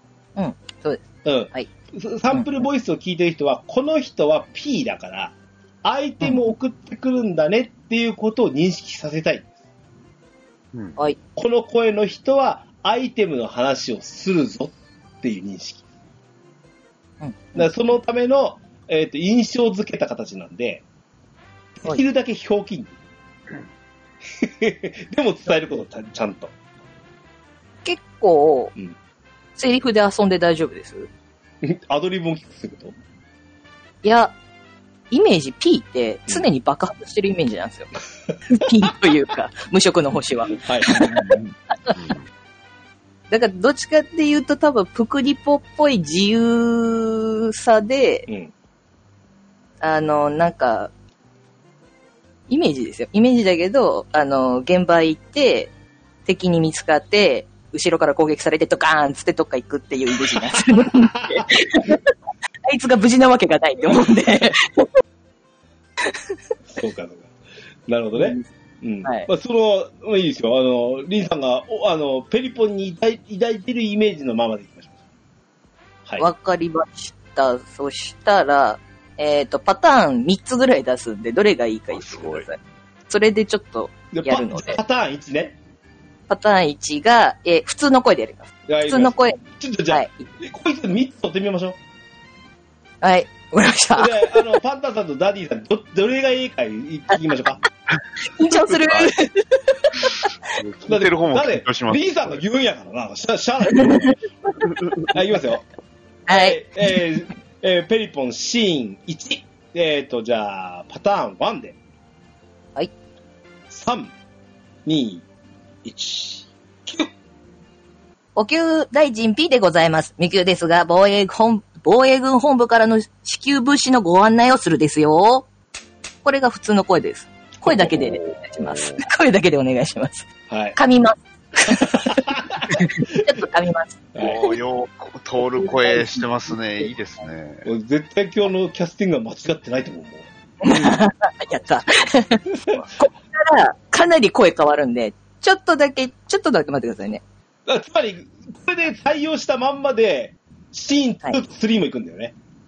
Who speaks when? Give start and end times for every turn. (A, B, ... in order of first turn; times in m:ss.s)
0:00.4-0:01.7 A
0:01.2-0:05.3 B
0:05.8-0:09.5 B
0:11.4-0:15.8 B
0:17.2-0:17.6 A
0:17.5-0:20.8 B
0:21.8-0:22.9 B
0:24.4-0:26.5 B
0:27.8-0:28.7 A
0:29.6-0:31.1 A
0:31.6-0:32.9 B
0:34.0-0:34.3 A
0:35.1-0:37.9 A
0:38.5-0:41.4 A
0:40.6-0:41.4 B
0:41.9-0:42.2 C
0:43.3-0:48.3 A
0:49.8-0:50.9 A
0:52.5-0:55.7 A
0:56.2-1:02.1 A
1:01.1-1:01.5 B
1:02.6-1:04.9 A
1:06.7-1:07.3 B
1:07.9-1:14.9 B
1:08.1-1:08.4 A
1:16.2-1:22.6 A
1:21.9-1:22.5 C
1:23.1-1:24.8 A
1:24.1-1:25.6 B
1:26.3-1:30.2 A
1:28.7-1:31.8 B
1:33.0-1:34.4 A
1:33.9-1:37.6 B
1:38.2-1:40.1 A
1:38.7-1:39.1 C
1:40.5-1:42.4 C
1:40.9-1:44.2 B
1:45.1-1:45.6 B
1:46.3-1:47.0 A
1:46.3-1:51.8 B
1:53.7-1:54.1 B
1:54.8-1:55.2 B
1:55.8-1:57.1 B
1:58.4-2:05.4 A
2:06.2-2:14.6 A
2:07.7-2:09.0 C
2:10.5-2:10.8 B
2:11.7-2:13.2 B
2:14.2-2:17.7 C
2:15.6-2:16.1 A
2:17.6-2:20.3 B
2:20.6-2:22.4 A
2:22.5-2:22.8 B
2:23.0-2:27.2 A
2:27.7-2:32.3 B